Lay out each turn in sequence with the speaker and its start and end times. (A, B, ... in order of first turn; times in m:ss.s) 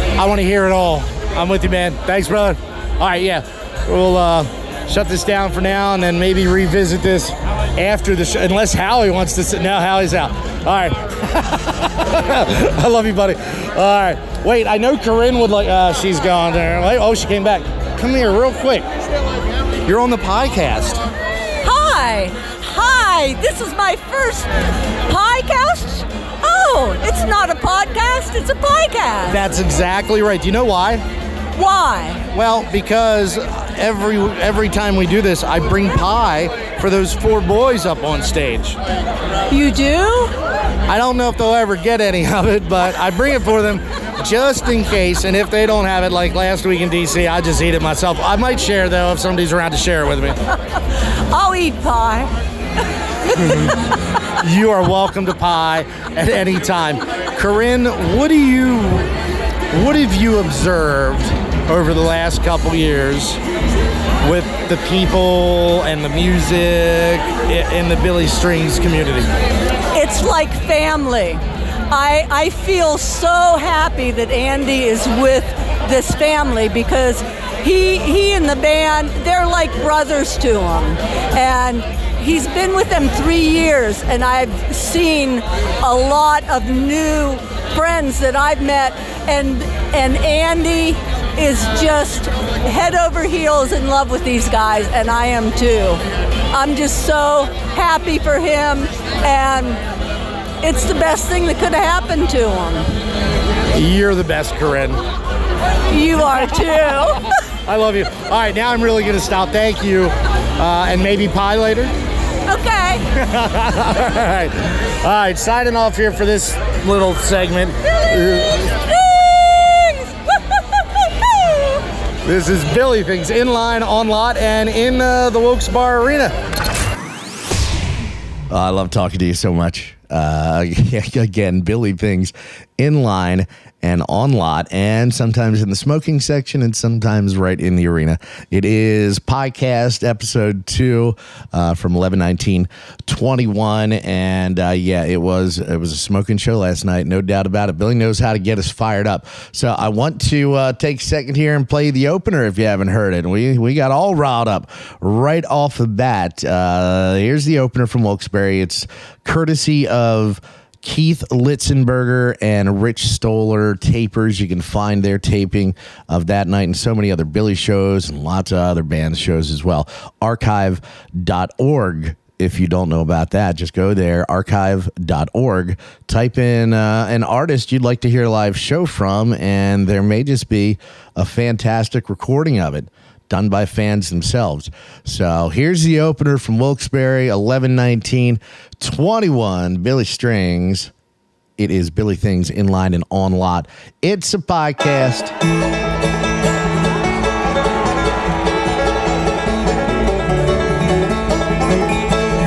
0:00.2-0:18.9 A
0:19.8-0:21.0 A
0:21.6-0:24.5 B
0:25.1-0:29.4 B
0:29.3-0:31.0 A
0:31.6-0:32.2 B
0:32.3-0:38.8 A
0:39.5-0:40.3 B
0:40.9-0:50.4 A
0:51.3-0:52.3 B
0:54.4-0:59.1 A
0:59.7-1:03.4 A
1:04.2-1:09.3 A
1:09.9-1:39.8 B
1:40.6-1:42.9 B
1:43.7-1:45.0 A
1:45.9-1:47.2 B
1:47.6-1:51.9 A
1:52.5-1:53.0 B
1:53.1-1:58.7 A
2:02.2-2:06.3 A
2:08.5-3:10.9 C
3:11.6-3:15.3 C